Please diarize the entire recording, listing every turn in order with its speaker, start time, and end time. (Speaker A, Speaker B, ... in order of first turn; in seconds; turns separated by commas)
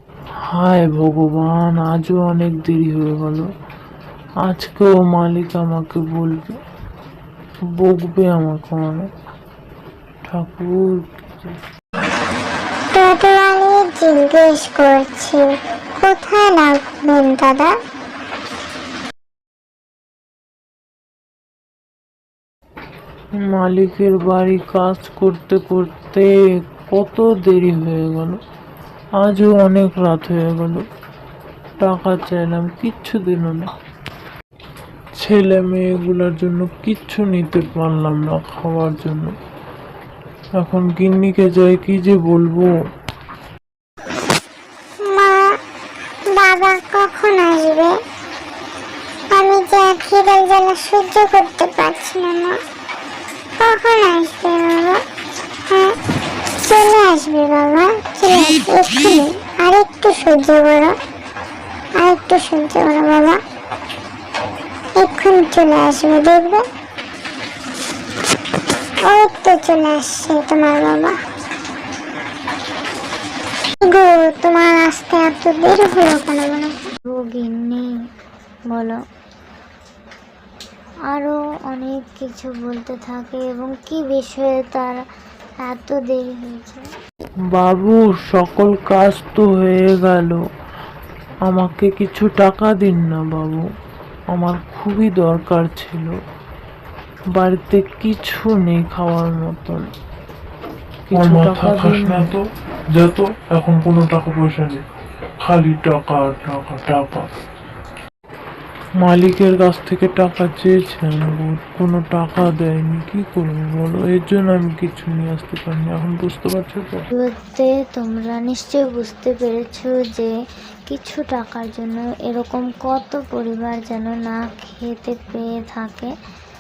Speaker A: 0.5-3.5, Speaker A: 4.5-6.6, Speaker A: 7.8-9.1, Speaker A: 10.3-11.5, Speaker B: 12.9-17.8, Speaker A: 23.4-28.4, Speaker A: 29.2-30.8, Speaker A: 31.8-33.7, Speaker A: 35.1-39.3, Speaker A: 40.6-42.7, Speaker B: 45.0-45.6, Speaker B: 46.2-48.0, Speaker B: 49.3-52.6, Speaker B: 53.6-55.0, Speaker B: 55.7-61.0, Speaker B: 62.0-63.4, Speaker B: 65.0-66.7, Speaker B: 69.0-71.2, Speaker B: 73.8-76.8, Speaker C: 77.1-77.9, Speaker C: 78.7-79.0, Speaker C: 81.1-85.0, Speaker C: 85.7-86.8, Speaker A: 87.5-90.4, Speaker A: 91.5-93.7, Speaker A: 94.3-96.1, Speaker A: 97.4-99.8, Speaker A: 101.1-102.3, Speaker D: 101.1-102.4, Speaker D: 103.0-104.8, Speaker D: 105.4-107.3, Speaker A: 109.0-117.0, Speaker C: 117.2-120.3, Speaker C: 120.9-126.1